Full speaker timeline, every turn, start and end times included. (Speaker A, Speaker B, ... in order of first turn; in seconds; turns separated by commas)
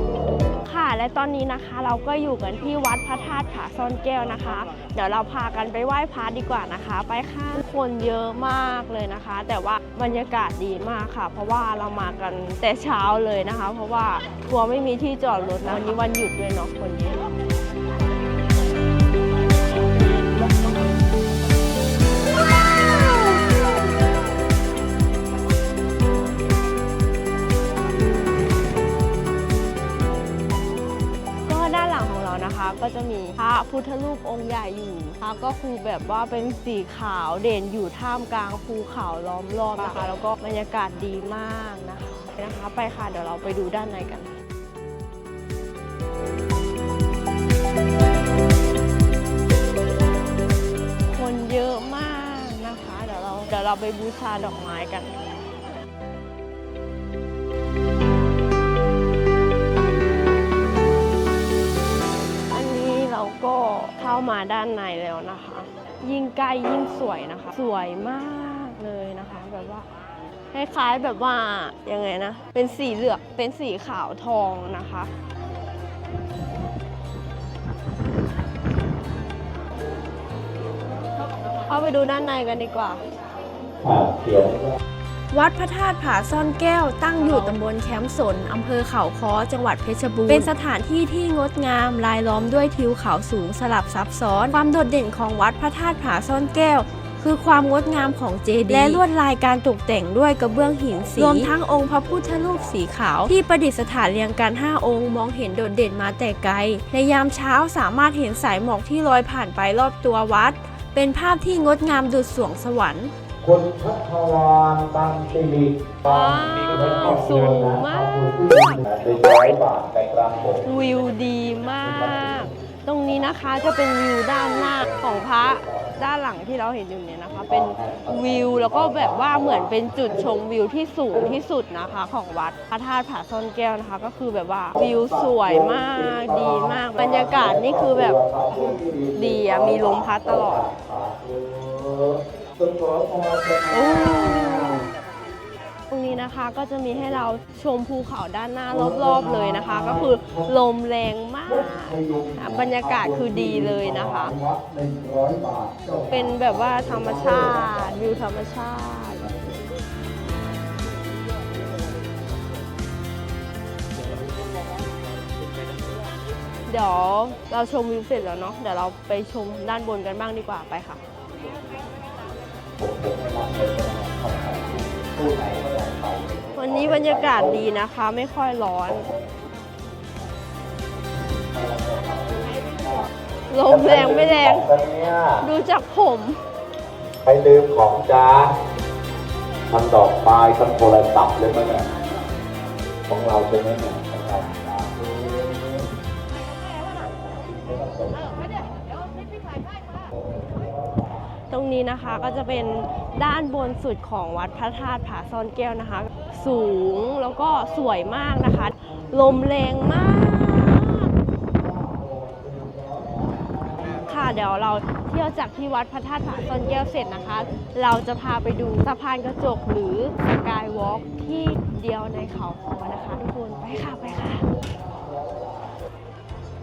Speaker A: 0.6-17.3, Speaker A: 31.4-44.3, Speaker A: 51.1-55.1, Speaker A: 62.5-69.9, Speaker A: 70.5-75.1, Speaker A: 81.7-83.0, Speaker B: 83.8-84.7, Speaker C: 85.3-113.1, Speaker A: 87.2-87.6, Speaker A: 90.3-90.5, Speaker A: 98.7-99.0, Speaker B: 100.4-103.2, Speaker B: 113.4-120.7, Speaker A: 116.0-118.8, Speaker A: 120.6-140.7, Speaker B: 121.8-122.5, Speaker B: 124.8-126.0, Speaker B: 127.3-130.2, Speaker B: 134.7-144.9, Speaker A: 143.7-144.8, Speaker A: 145.9-154.3, Speaker B: 148.7-150.5, Speaker B: 151.4-158.3, Speaker A: 156.1-159.3, Speaker B: 159.2-159.6, Speaker A: 166.7-171.0, Speaker B: 172.8-177.6, Speaker A: 176.5-179.1, Speaker B: 178.8-179.5, Speaker B: 181.5-183.1, Speaker A: 183.5-184.7, Speaker B: 183.7-185.5, Speaker A: 185.4-186.4, Speaker B: 187.2-188.6, Speaker B: 189.7-191.9, Speaker B: 193.1-195.9, Speaker B: 196.9-198.6, Speaker B: 200.1-201.0, Speaker A: 201.5-211.1, Speaker B: 211.6-214.1, Speaker A: 214.0-224.5, Speaker B: 223.8-225.4